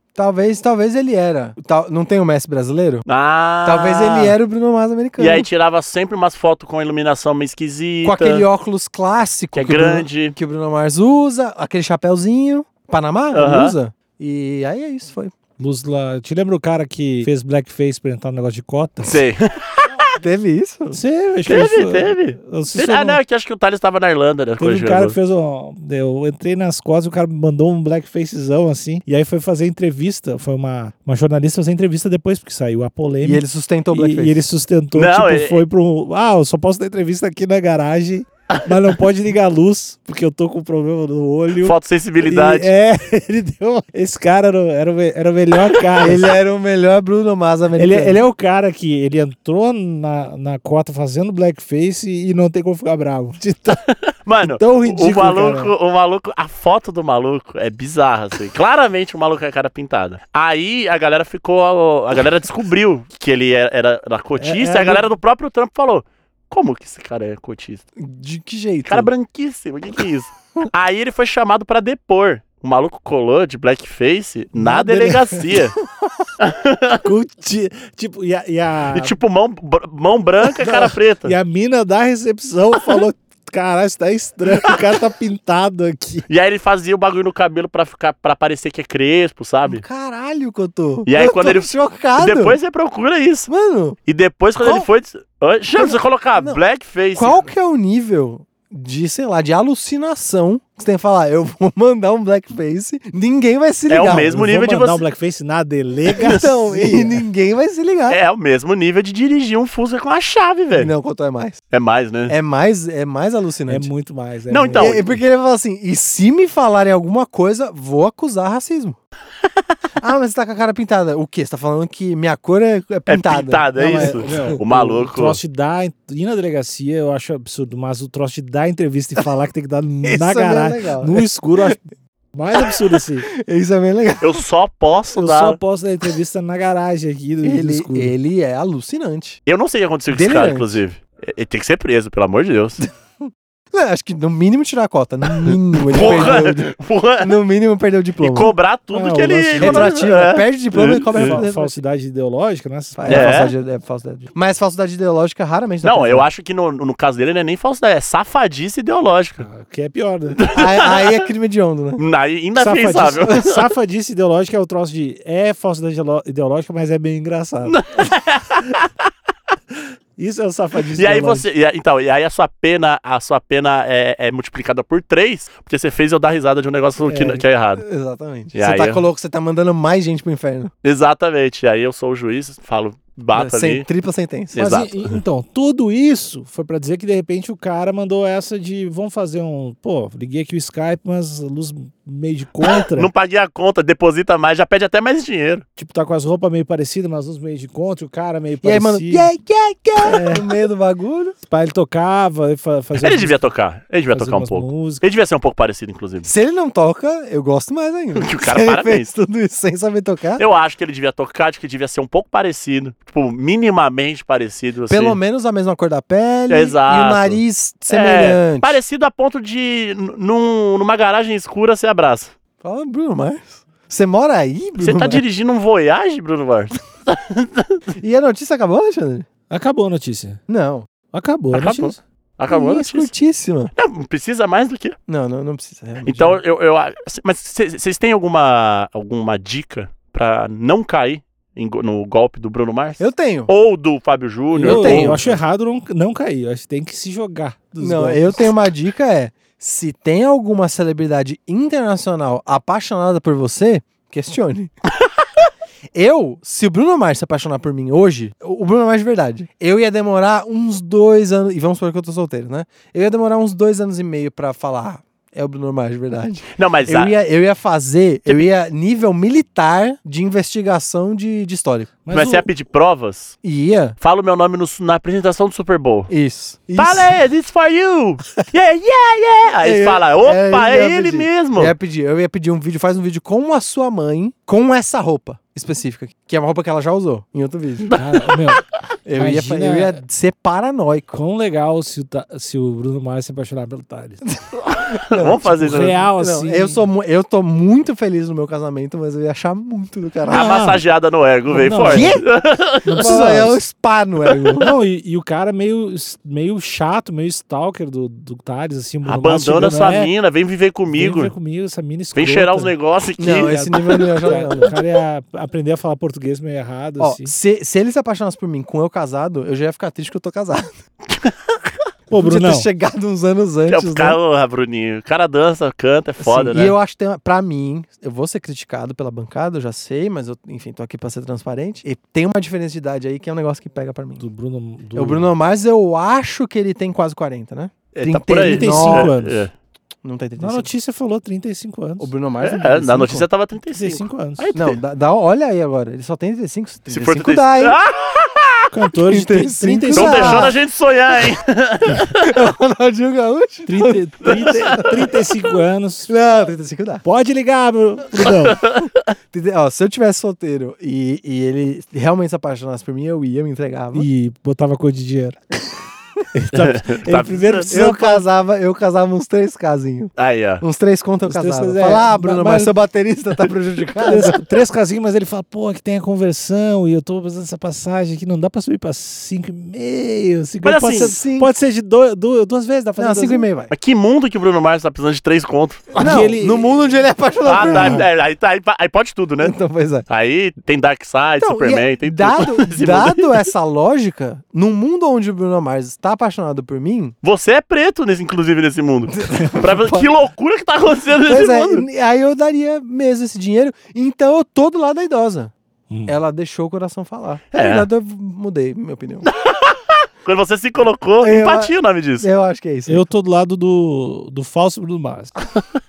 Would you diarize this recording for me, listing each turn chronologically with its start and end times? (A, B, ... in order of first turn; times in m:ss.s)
0:00.2-0:03.0 A
0:03.0-0:04.4 B
0:03.6-0:05.5 A
0:05.2-0:08.4 B
0:08.0-0:15.3 A
0:09.5-0:10.3 B
0:13.3-0:13.7 B
0:15.6-0:19.2 C
0:19.0-0:20.1 B
0:20.2-0:21.0 A
0:20.9-0:23.2 C
0:21.4-0:25.2 B
0:24.6-0:46.3 C
0:33.2-0:34.4 A
0:34.9-0:35.6 B
0:41.6-0:42.7 B
0:46.0-0:48.2 A
0:47.8-0:53.8 C
0:53.7-1:07.8 B
0:54.4-0:55.7 C
1:04.4-1:05.1 C
1:08.0-1:09.1 A
1:08.9-1:15.8 B
1:14.6-1:15.6 C
1:16.4-1:17.0 B
1:17.0-1:19.1 C
1:18.9-1:21.3 B
1:20.4-1:26.2 C
1:26.3-1:29.8 B
1:29.6-1:32.6 A
1:31.0-1:33.5 B
1:33.5-1:34.0 A
1:34.0-1:37.5 B
1:34.6-1:34.9 A
1:35.7-1:36.6 A
1:37.1-1:44.5 A
1:43.9-1:45.0 B
1:44.1-1:47.2 C
1:46.1-1:46.4 B
1:46.2-1:48.2 A
1:48.1-1:50.9 B
1:50.7-1:51.6 A
1:51.7-1:52.3 B
1:52.3-1:53.9 A
1:53.7-1:55.1 C
1:54.5-1:55.0 B
1:54.8-1:59.0 A
2:00.0-2:04.8 A
2:03.1-2:05.4 B
2:04.0-2:13.3 C
2:10.0-2:11.8 A
2:12.5-2:14.4 A
2:14.2-2:15.6 B
2:15.2-2:18.1 C
2:17.4-2:19.4 A
2:19.5-2:22.8 B
2:20.1-2:20.8 A
2:23.7-2:28.5 A
2:25.3-2:27.3 B
2:28.2-2:31.4 B
2:28.9-2:30.0 C
2:29.6-2:31.8 A
2:31.1-2:33.5 C
2:33.0-2:36.2 A
2:33.1-2:33.5 B
2:35.8-2:39.4 B
2:39.4-2:40.4 C
2:40.4-2:41.2 B
2:40.5-2:42.0 A
2:42.0-2:43.6 B
2:42.6-2:47.8 C
2:47.6-2:48.9 B
2:49.7-2:51.5 C
2:50.9-2:57.8 B
2:57.0-2:57.4 C
2:57.8-3:00.7 A
2:58.5-2:59.0 B
3:00.8-3:03.8 B
3:03.3-3:04.8 A
3:04.5-3:05.1 B
3:04.6-3:13.1 C
3:12.6-3:15.6 B
3:15.8-3:19.3 C
3:18.6-3:21.4 A
3:20.0-3:20.4 C
3:21.4-3:23.4 C
3:23.0-3:26.3 B
3:24.1-3:25.0 C
3:26.2-3:30.4 A
3:28.2-3:29.1 B
3:30.4-3:35.2 B
3:34.9-3:38.8 A
3:36.5-3:42.3 B
3:42.6-3:45.2 A
3:44.8-3:47.8 B
3:47.9-3:49.2 A
3:49.5-3:50.4 C
3:50.5-3:50.9 A
3:51.1-3:52.0 C
3:51.5-3:53.1 B
3:52.5-3:53.7 A
3:53.7-3:55.0 B
3:55.1-3:56.4 A
3:56.0-4:05.4 B
4:03.0-4:03.5 A
4:04.5-4:05.3 A
4:04.6-4:08.6 C
4:07.8-4:14.7 A
4:15.9-4:31.9 A
4:26.6-4:27.1 B
4:32.0-4:32.5 C
4:32.1-4:33.4 B
4:33.4-4:34.0 A
4:34.0-4:36.1 B
4:36.1-4:37.2 A
4:36.8-4:41.7 B
4:39.6-4:47.9 A
4:47.8-4:48.6 B
4:47.9-4:50.0 C
4:49.0-4:51.2 A
4:51.1-4:54.2 C
4:54.3-5:00.6 A
4:54.5-4:56.0 B
4:55.5-4:56.8 C
5:00.3-5:03.5 B
5:00.3-5:00.8 C
5:01.5-5:02.2 C
5:01.8-5:02.2 A
5:02.8-5:04.7 A
5:02.9-5:03.6 C
5:04.6-5:10.1 C
5:09.0-5:11.3 B
5:10.9-5:12.7 C
5:12.1-5:14.1 B
5:13.2-5:14.7 A
5:13.4-5:17.3 C
5:17.0-5:20.7 A
5:22.1-5:22.7 C
5:22.1-5:24.2 A
5:23.7-5:26.8 B
5:26.2-5:34.2 A
5:34.2-5:35.3 C
5:34.9-5:39.1 A
5:37.9-5:39.5 B
5:38.4-5:39.5 C
5:40.0-5:40.7 A
5:40.4-5:42.1 C
5:42.0-5:43.2 A
5:42.4-5:44.8 B
5:43.7-5:44.5 C
5:44.5-5:47.8 A
5:46.9-5:48.7 B
5:48.7-5:50.5 C
5:49.0-5:50.6 A
5:49.9-5:52.4 B
5:52.2-5:55.2 A
5:53.7-5:56.1 C
5:54.2-5:54.8 B
5:56.1-5:57.0 A
5:57.0-5:58.6 C
5:58.3-5:58.9 B
5:59.3-6:04.1 A
6:03.9-6:05.8 C
6:06.3-6:08.2 C
6:06.5-6:07.7 B
6:07.7-6:14.4 A
6:10.2-6:10.6 B
6:11.2-6:12.7 C
6:14.0-6:23.5 C
6:20.6-6:21.1 B
6:20.9-6:21.5 A
6:23.0-6:23.7 A
6:23.7-6:26.2 B
6:26.0-6:28.0 A
6:26.0-6:26.7 C
6:27.4-6:29.6 B
6:27.6-6:28.0 C
6:29.4-6:30.0 A
6:30.1-6:33.4 B
6:31.4-6:37.1 A
6:37.2-6:41.8 B
6:39.1-6:40.1 A
6:41.2-6:45.5 A
6:46.0-6:49.3 A
6:47.5-6:47.9 B
6:49.3-6:52.3 B
6:51.2-6:53.0 A
6:52.9-6:55.3 C